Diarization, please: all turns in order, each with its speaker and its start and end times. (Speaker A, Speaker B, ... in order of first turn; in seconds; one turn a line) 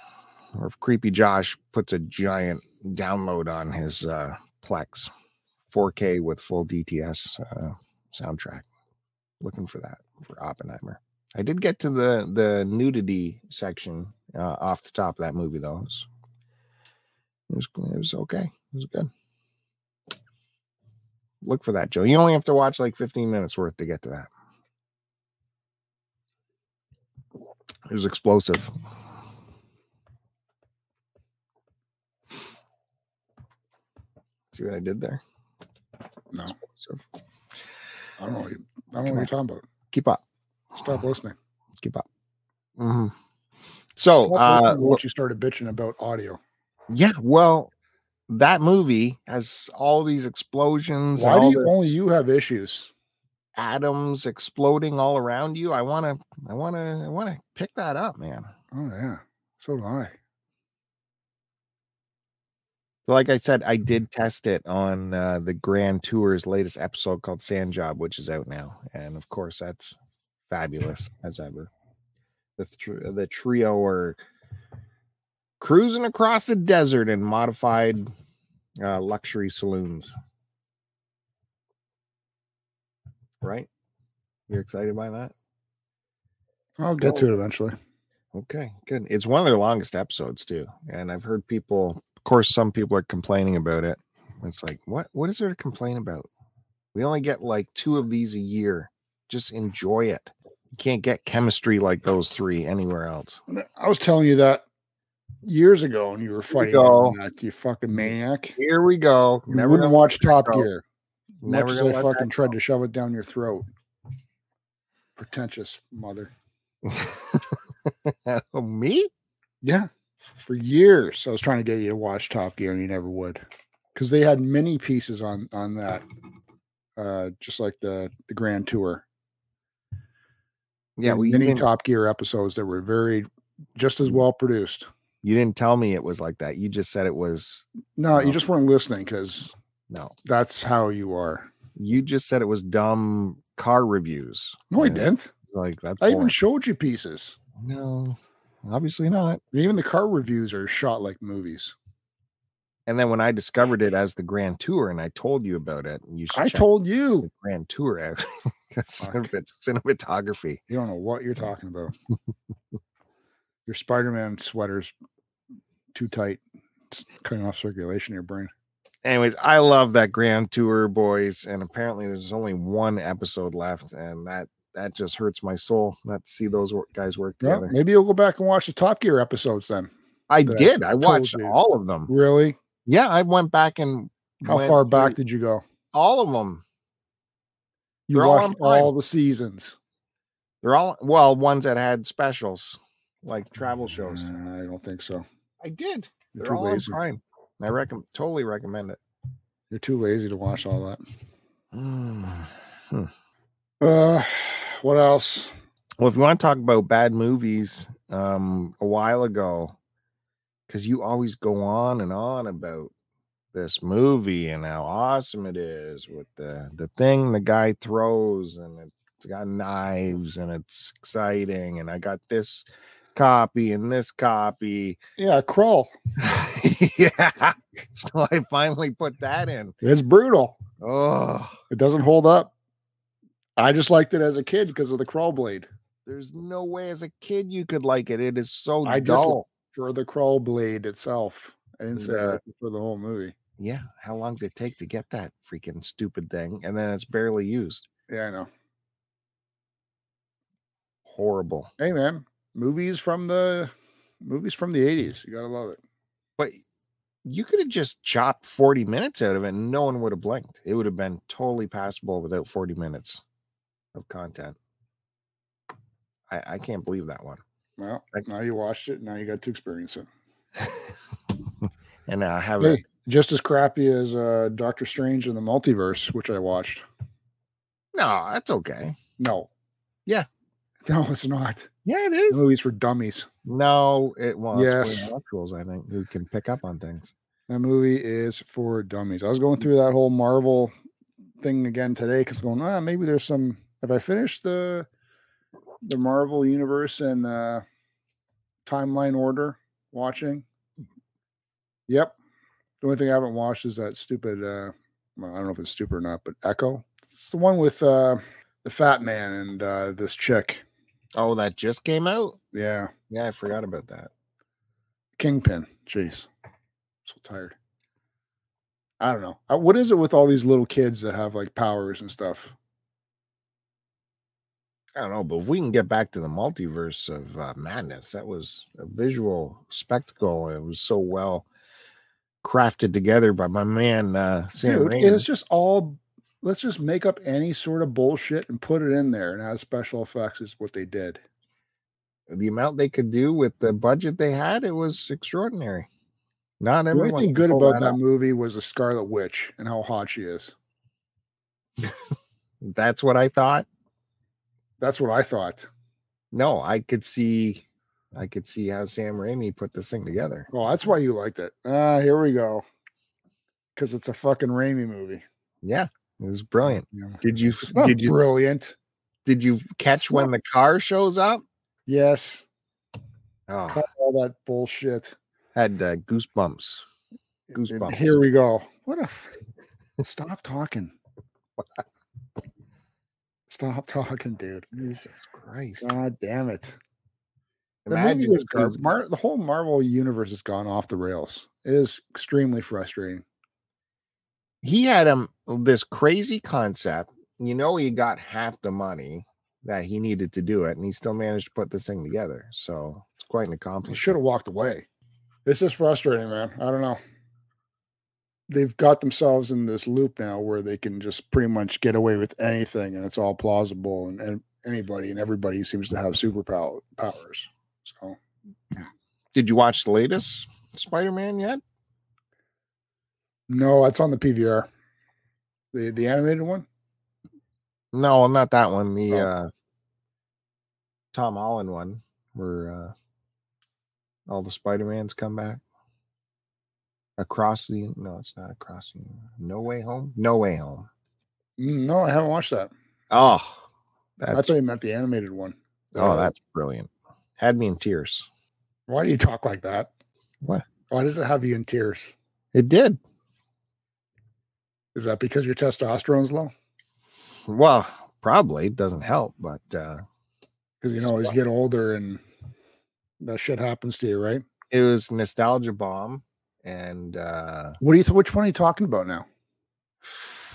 Speaker A: 0.6-5.1
Speaker A: 5.7-8.7
Speaker A: 9.4-16.1
Speaker A: 17.5-19.1
Speaker A: 21.4-24.3
Speaker A: 27.9-28.7
Speaker A: 34.5-35.2
Speaker A: 36.5-37.0
Speaker B: 38.2-39.6
Speaker A: 39.0-39.3
Speaker A: 39.9-40.2
Speaker B: 40.8-41.4
Speaker A: 41.8-42.1
Speaker A: 42.8-43.1
Speaker A: 44.0-45.0
Speaker B: 44.3-46.4
Speaker A: 46.9-47.7
Speaker A: 48.3-51.7
Speaker B: 51.2-52.9
Speaker A: 53.6-58.5
Speaker B: 58.7-60.1
Speaker A: 63.1-70.0
Speaker A: 70.5-71.7
Speaker A: 72.6-74.2
Speaker A: 75.6-78.1
Speaker A: 78.8-80.1
Speaker A: 83.4-83.7
Speaker A: 84.5-85.3
Speaker B: 86.8-87.7
Speaker A: 88.3-96.3
Speaker A: 96.9-103.4
Speaker B: 103.5-104.6
Speaker B: 105.4-108.6
Speaker A: 106.5-107.2
Speaker A: 108.6-110.7
Speaker B: 109.5-110.8
Speaker A: 111.4-112.3
Speaker B: 111.4-113.7
Speaker B: 115.2-116.3
Speaker A: 116.8-119.1
Speaker B: 119.6-119.9
Speaker B: 120.4-123.4
Speaker B: 124.0-126.0
Speaker B: 127.0-129.0
Speaker A: 131.0-131.7
Speaker B: 131.0-134.9
Speaker A: 135.2-138.4
Speaker B: 138.0-139.5
Speaker A: 139.9-140.2
Speaker B: 140.2-141.5
Speaker A: 141.8-146.3
Speaker B: 144.7-145.3
Speaker B: 146.0-147.4
Speaker A: 147.6-149.4
Speaker B: 149.5-151.8
Speaker A: 152.9-156.7
Speaker B: 156.3-157.3
Speaker A: 157.2-160.6
Speaker B: 159.0-159.3
Speaker B: 160.7-161.9
Speaker B: 163.7-164.9
Speaker B: 165.9-168.5
Speaker A: 169.0-177.7
Speaker B: 177.4-179.9
Speaker A: 180.3-182.1
Speaker B: 180.4-181.6
Speaker B: 182.1-182.6
Speaker A: 182.9-185.2
Speaker B: 184.4-185.6
Speaker A: 185.9-186.6
Speaker B: 188.1-189.8
Speaker A: 188.1-188.9
Speaker A: 190.6-194.3
Speaker B: 194.0-195.2
Speaker A: 195.6-199.0
Speaker B: 196.3-197.0
Speaker B: 199.7-201.0
Speaker A: 201.7-203.1
Speaker B: 203.8-205.5
Speaker A: 206.0-209.8
Speaker A: 210.7-212.9
Speaker A: 213.5-225.0
Speaker B: 225.2-225.9
Speaker A: 226.2-229.8
Speaker B: 229.8-230.6
Speaker A: 230.8-231.6
Speaker B: 231.7-232.5
Speaker B: 233.6-235.7
Speaker A: 236.1-239.4
Speaker B: 238.8-243.3
Speaker A: 242.0-242.4
Speaker A: 243.6-247.8
Speaker B: 248.1-248.5
Speaker A: 251.1-251.7
Speaker B: 251.8-253.7
Speaker B: 254.2-255.8
Speaker A: 257.2-263.2
Speaker A: 263.9-264.6
Speaker A: 266.3-267.4
Speaker B: 267.8-270.1
Speaker A: 272.1-272.8
Speaker B: 272.6-276.9
Speaker A: 277.9-279.0
Speaker B: 279.2-279.5
Speaker B: 280.9-281.7
Speaker A: 281.9-282.5
Speaker B: 282.3-283.3
Speaker A: 283.5-287.1
Speaker B: 284.5-285.1
Speaker B: 287.5-290.7
Speaker B: 291.4-294.9
Speaker B: 295.8-297.6
Speaker B: 298.7-300.4
Speaker B: 301.9-302.1
Speaker B: 302.8-310.6
Speaker A: 311.2-312.4
Speaker B: 312.5-312.9
Speaker A: 313.1-314.1
Speaker B: 315.2-316.3
Speaker B: 317.1-317.6
Speaker B: 319.0-322.6
Speaker A: 325.0-331.5
Speaker A: 332.4-335.2
Speaker B: 334.6-341.2
Speaker A: 342.3-345.9
Speaker A: 346.6-348.0
Speaker B: 346.9-350.5
Speaker A: 352.6-353.7
Speaker B: 354.8-355.7
Speaker A: 356.3-360.5
Speaker B: 360.5-362.6
Speaker B: 363.8-365.2
Speaker A: 365.6-368.2
Speaker B: 366.9-368.8
Speaker A: 369.3-371.4
Speaker B: 371.9-372.5
Speaker A: 373.5-373.9
Speaker B: 373.7-375.2
Speaker A: 375.6-376.9
Speaker A: 377.5-378.2
Speaker B: 377.7-379.3
Speaker B: 380.0-380.9
Speaker B: 383.5-384.7
Speaker A: 384.7-386.0
Speaker B: 385.8-386.8
Speaker A: 387.9-388.9
Speaker B: 387.9-393.2
Speaker A: 394.6-404.1
Speaker B: 403.9-404.9
Speaker B: 405.5-407.0
Speaker B: 408.5-418.2
Speaker A: 419.4-421.6
Speaker B: 423.5-424.7
Speaker B: 425.7-426.7
Speaker A: 427.9-429.5
Speaker A: 431.1-432.9
Speaker A: 434.3-435.6
Speaker A: 437.2-440.9
Speaker B: 441.6-442.7
Speaker A: 443.1-443.6
Speaker A: 444.2-444.5
Speaker B: 444.3-446.3
Speaker A: 445.9-448.3
Speaker B: 448.9-449.9
Speaker B: 450.9-452.1
Speaker A: 452.5-453.0
Speaker B: 454.9-456.5
Speaker A: 457.5-460.0
Speaker B: 460.8-462.2
Speaker A: 461.0-461.3
Speaker B: 463.2-464.4
Speaker A: 464.7-467.8
Speaker B: 467.8-469.3